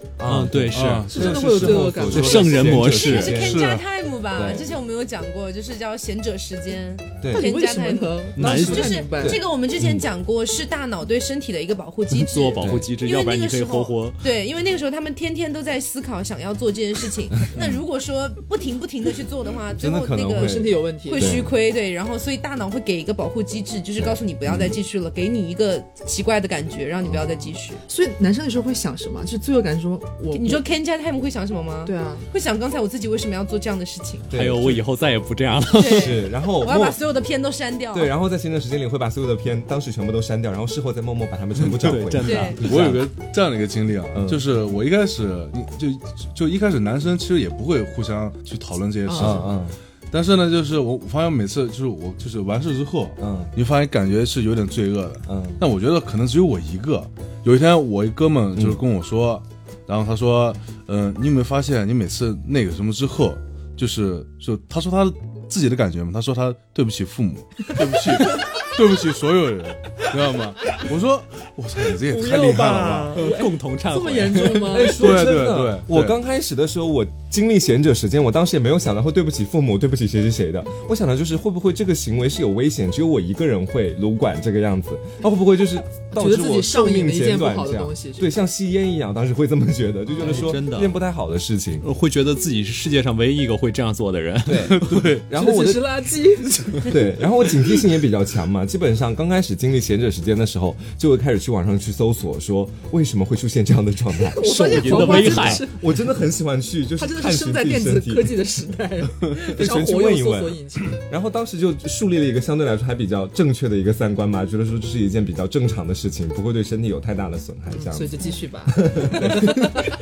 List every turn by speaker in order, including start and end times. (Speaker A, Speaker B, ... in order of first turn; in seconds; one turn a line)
Speaker A: 0.2-3.6
Speaker B: 0.2-1.1
Speaker C: 0.7-3.8
Speaker D: 1.1-2.6
Speaker B: 2.1-3.4
Speaker E: 3.0-27.8
Speaker A: 4.3-4.7
Speaker A: 7.2-7.5
Speaker D: 7.3-9.4
Speaker B: 8.4-9.0
Speaker A: 8.4-10.0
Speaker B: 12.1-14.2
Speaker A: 12.6-12.9
Speaker A: 17.5-17.8
Speaker A: 19.8-21.5
Speaker D: 20.4-21.4
Speaker A: 24.0-24.8
Speaker D: 27.9-30.6
Speaker E: 30.3-34.3
Speaker D: 31.8-32.3
Speaker A: 34.3-34.8
Speaker B: 34.3-36.2
Speaker E: 35.7-38.1
Speaker A: 35.8-37.0
Speaker A: 37.9-43.0
Speaker B: 41.6-43.0
Speaker E: 42.2-42.6
Speaker C: 42.6-73.2
Speaker A: 44.1-44.4
Speaker D: 49.0-49.5
Speaker A: 49.1-49.8
Speaker A: 53.2-53.5
Speaker A: 55.3-55.6
Speaker A: 72.0-73.2
Speaker D: 73.1-75.0
Speaker B: 73.1-75.0
Speaker A: 74.7-91.8
Speaker C: 75.0-76.2
Speaker D: 86.1-88.2
Speaker D: 90.1-90.5
Speaker B: 90.2-91.0
Speaker B: 91.8-94.8
Speaker A: 94.5-95.9
Speaker C: 94.7-95.3
Speaker D: 95.3-97.0
Speaker A: 96.9-108.3
Speaker D: 104.2-105.8
Speaker B: 104.4-105.7
Speaker D: 107.0-111.0
Speaker A: 109.3-118.1
Speaker D: 117.7-119.9
Speaker A: 118.7-119.9